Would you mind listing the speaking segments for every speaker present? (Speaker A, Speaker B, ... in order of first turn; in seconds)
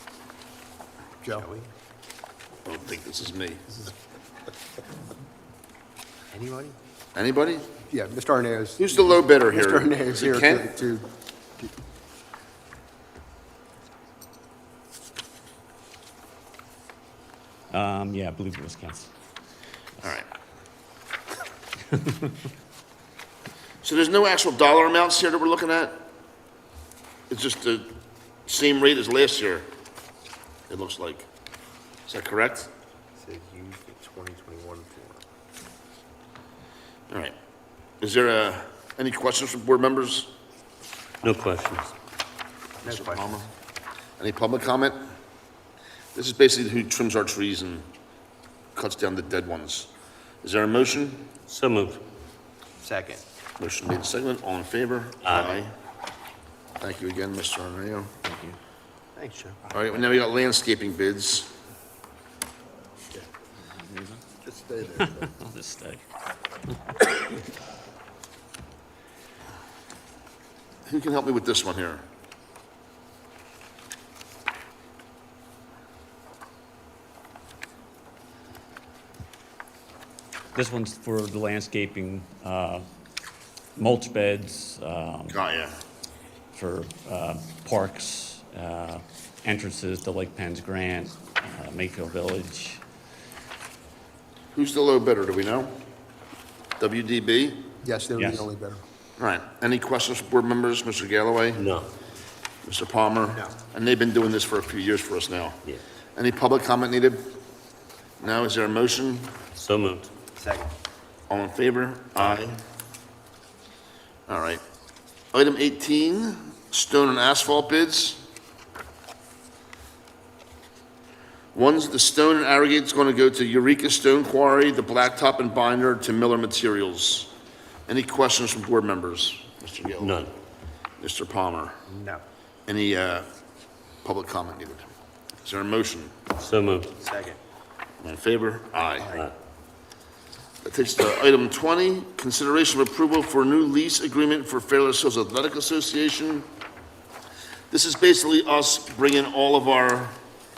Speaker A: 1.3-1.7, 6.3-6.8, 33.2-35.2, 42.8-43.5, 52.8-53.2, 59.2-59.6, 103.3-103.5, 110.3-110.7, 131.9-132.2, 137.0-137.4, 139.0-139.3
Speaker B: 2.6-3.8, 7.2-7.7, 8.8-10.8, 20.0-20.3, 23.8-26.1, 27.3-27.9, 28.5-29.7, 30.7-31.3, 32.1-32.7, 37.1-37.4, 38.0-40.3, 42.9-43.5, 44.2-45.0, 46.1-47.9, 48.8-49.9, 50.4-51.3, 53.6-55.7, 56.8-58.1, 59.7-61.5, 70.9-72.0, 85.3-85.8, 94.5-95.8, 96.8-97.7, 99.2-101.7, 102.7-105.6, 106.2-107.4, 108.2-109.4, 111.3-112.6, 114.3-114.6, 115.3-118.2, 121.5-127.3, 127.9-130.2, 131.0-131.8, 132.7-133.3, 134.0-134.9, 135.4-136.2, 138.0-139.2, 140.6-146.5, 147.7-150.2
Speaker C: 7.9-11.1, 64.4-65.2, 97.8-98.8
Speaker D: 17.7-19.1, 58.2-58.6, 63.8-64.2, 64.9-66.0, 80.5-82.9, 83.8-85.4, 86.5-92.8, 98.2-98.5
Speaker E: 41.2-41.9, 51.5-52.0, 55.2-55.5, 101.6-101.9, 109.5-110.1, 130.0-130.3, 136.4-136.9, 139.0-139.3